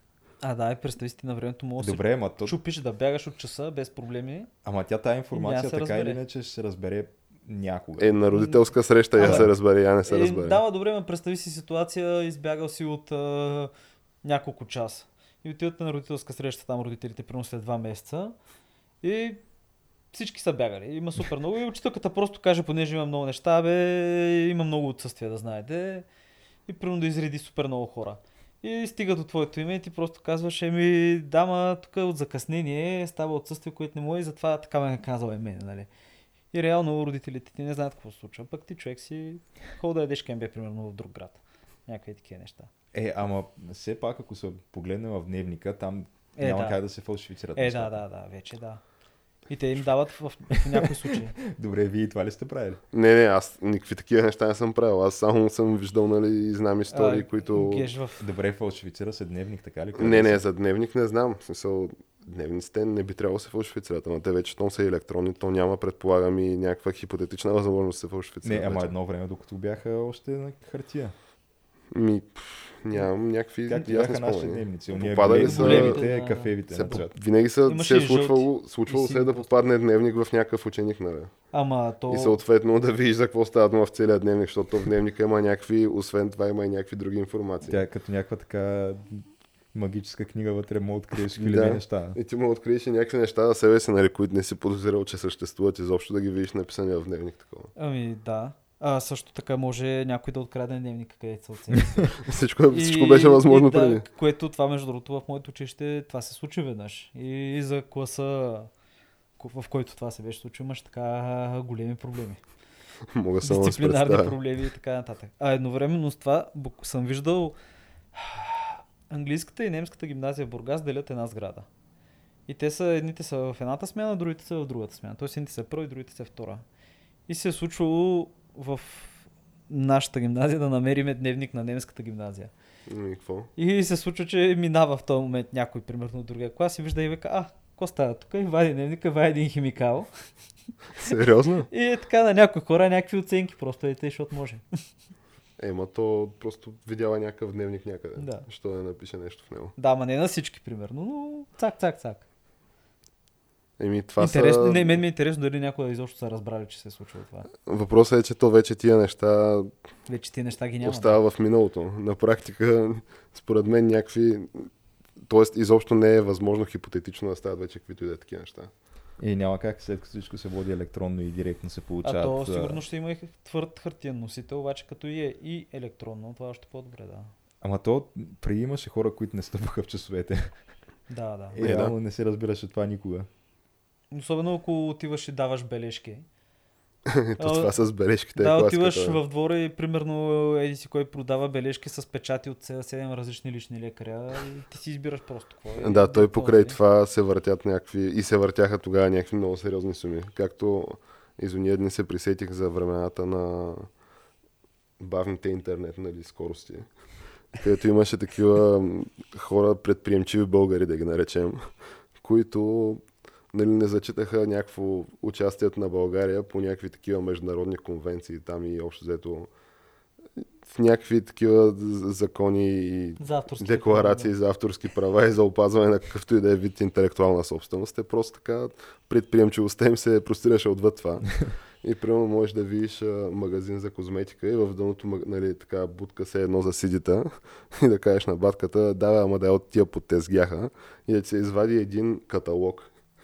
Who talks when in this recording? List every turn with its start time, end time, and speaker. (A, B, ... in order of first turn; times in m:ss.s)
0:00.4-0:04.5 A
0:01.8-0:02.6 B
0:04.6-0:08.2 B
0:05.3-0:06.2 A
0:08.0-0:10.6 C
0:08.3-0:08.6 A
0:09.2-0:09.5 A
0:09.2-0:09.5 B
0:10.1-0:13.7 A
0:14.2-0:18.3 A
0:19.0-0:19.4 A
0:20.1-0:26.1 A
0:26.7-0:35.9 A
0:36.5-0:42.7 A
0:42.9-0:48.0 B
0:46.4-0:46.8 A
0:47.6-0:48.8 A
0:49.5-0:51.4 A
0:51.4-0:52.8 B
0:52.9-0:57.9 C
0:56.9-0:58.2 A
0:58.2-1:00.4 B
1:00.0-1:08.9 C
1:08.4-1:11.1 B
1:11.9-1:16.0 C
1:13.6-1:17.1 B
1:15.3-1:17.0 A
1:16.7-1:21.4 C
1:17.6-1:19.5 A
1:21.5-1:22.4 A
1:22.1-1:27.8 C
1:27.6-1:32.2 B
1:31.4-1:37.7 C
1:37.8-1:42.1 A
1:42.2-1:44.0 C
1:42.7-1:48.7 A
1:49.4-1:52.4 A
1:53.1-1:54.4 C
1:53.4-1:57.6 A
1:58.1-2:01.7 A
2:02.5-2:06.6 A
2:07.3-2:12.5 A
2:12.9-2:13.5 C
2:13.6-2:20.1 A
2:21.0-2:21.7 C
2:21.7-2:24.6 A
2:25.6-2:29.7 C
2:28.2-2:28.5 A
2:29.8-2:32.2 A
2:33.8-2:35.0 C
2:34.2-2:37.5 A
2:37.6-2:39.7 C
2:40.1-2:41.2 A
2:40.8-2:44.7 C
2:45.2-2:48.7 C
2:49.2-2:52.8 B
2:52.0-2:57.3 A
2:57.6-3:00.5 B
3:01.1-3:01.6 A
3:01.5-3:03.3 B
3:01.6-3:01.9 C
3:04.1-3:06.2 A
3:07.1-3:09.2 C
3:07.4-3:07.7 A
3:08.4-3:16.8 A
3:15.8-3:23.9 C
3:25.0-3:26.9 C
3:27.5-3:31.6 C
3:32.2-3:39.5 C
3:40.6-4:02.9 C
3:43.2-3:44.3 A